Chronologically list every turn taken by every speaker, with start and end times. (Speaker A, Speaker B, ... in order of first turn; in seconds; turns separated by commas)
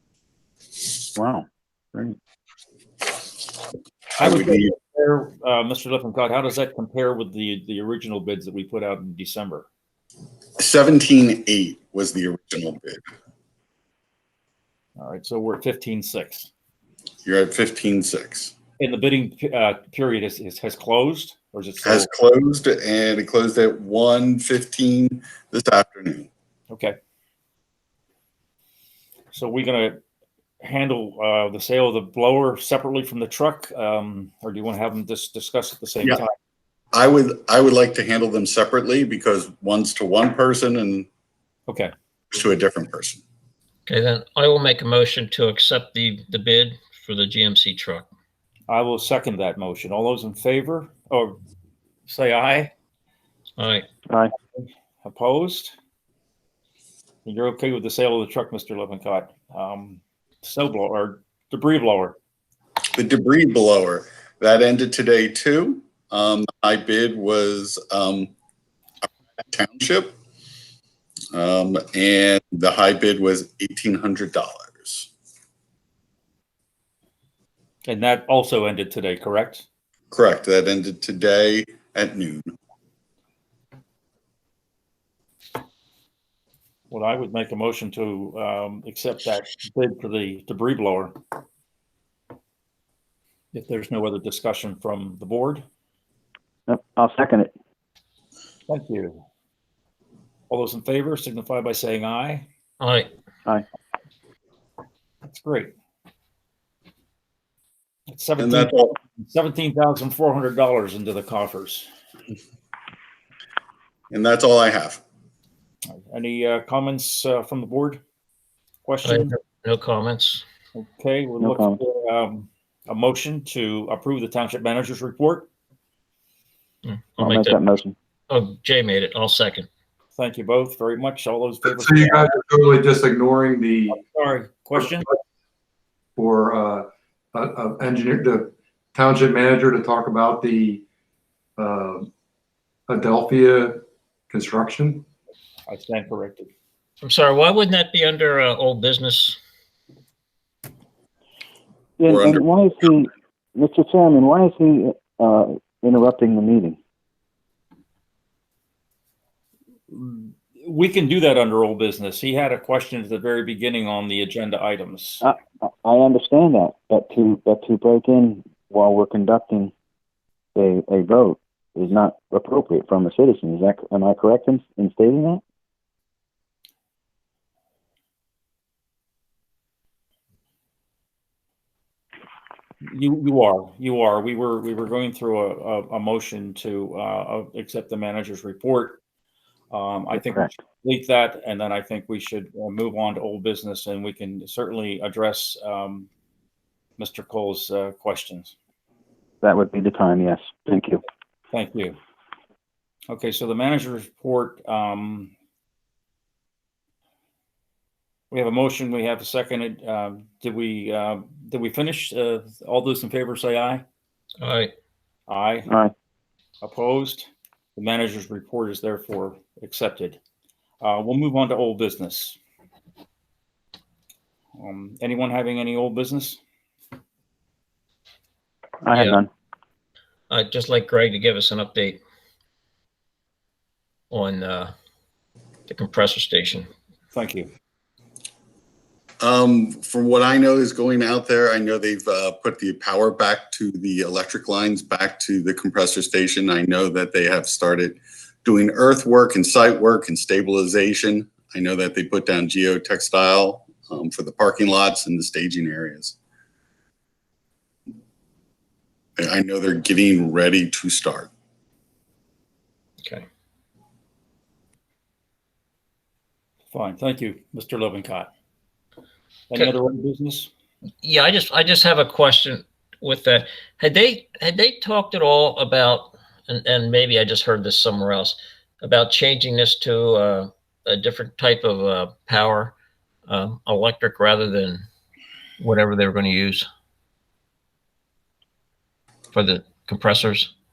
Speaker A: 1.1-2.1, Speaker B: 4.2-9.7, Speaker C: 4.2-4.7, Speaker C: 10.6-13.0, Speaker B: 15.0-16.5, Speaker C: 17.2-18.5, Speaker B: 18.8-22.1, Speaker C: 21.8-26.3, Speaker B: 26.7-26.9, Speaker B: 29.3-29.9, Speaker B: 30.6-36.3, Speaker C: 36.9-41.1, Speaker C: 42.3-43.2, Speaker D: 43.9-48.1, Speaker B: 48.7-51.4, Speaker B: 52.1-52.7, Speaker D: 53.6-53.9, Speaker B: 54.6-55.7, Speaker B: 57.2-62.1, Speaker C: 62.9-68.3, Speaker C: 69.5-70.1, Speaker C: 71.3-75.1, Speaker B: 77.9-79.6, Speaker C: 80.1-82.5, Speaker B: 86.9-91.2, Speaker B: 93.5-95.6, Speaker A: 96.7-97.5, Speaker B: 98.7-99.2, Speaker B: 100.5-102.4, Speaker D: 102.8-103.1, Speaker B: 105.2-105.7, Speaker B: 108.1-111.9, Speaker C: 108.4-109.0, Speaker C: 114.1-115.0, Speaker B: 116.1-118.0, Speaker B: 118.8-119.3, Speaker D: 119.0-120.4, Speaker B: 120.7-125.5, Speaker A: 121.4-121.8, Speaker D: 126.8-127.6, Speaker A: 127.2-127.9, Speaker D: 128.3-129.7, Speaker B: 130.2-132.3, Speaker E: 131.6-134.0, Speaker B: 133.9-135.1, Speaker E: 136.2-140.8, Speaker E: 141.6-142.1, Speaker E: 142.9-145.1, Speaker B: 145.7-146.5, Speaker D: 147.0-149.4, Speaker A: 152.0-156.8, Speaker C: 152.1-152.4, Speaker B: 159.9-165.2, Speaker A: 165.2-169.7, Speaker A: 170.6-175.4, Speaker B: 182.8-189.0, Speaker B: 189.7-196.1, Speaker A: 190.2-190.5, Speaker B: 197.0-198.5, Speaker A: 199.4-201.0, Speaker B: 201.5-202.0, Speaker B: 203.1-205.3, Speaker B: 208.3-213.8, Speaker D: 214.4-214.7, Speaker B: 215.3-215.7, Speaker A: 215.7-215.9, Speaker B: 216.6-220.2, Speaker B: 220.8-222.3, Speaker B: 224.6-226.4, Speaker A: 228.8-229.3, Speaker D: 228.9-229.2, Speaker D: 230.3-232.0, Speaker D: 234.1-234.7, Speaker D: 235.7-236.7, Speaker B: 237.1-237.5, Speaker C: 239.2-256.2, Speaker C: 259.2-261.3, Speaker B: 266.7-268.3, Speaker B: 269.5-270.5, Speaker D: 271.0-282.7, Speaker D: 283.3-284.8, Speaker D: 285.6-286.7, Speaker D: 289.3-290.5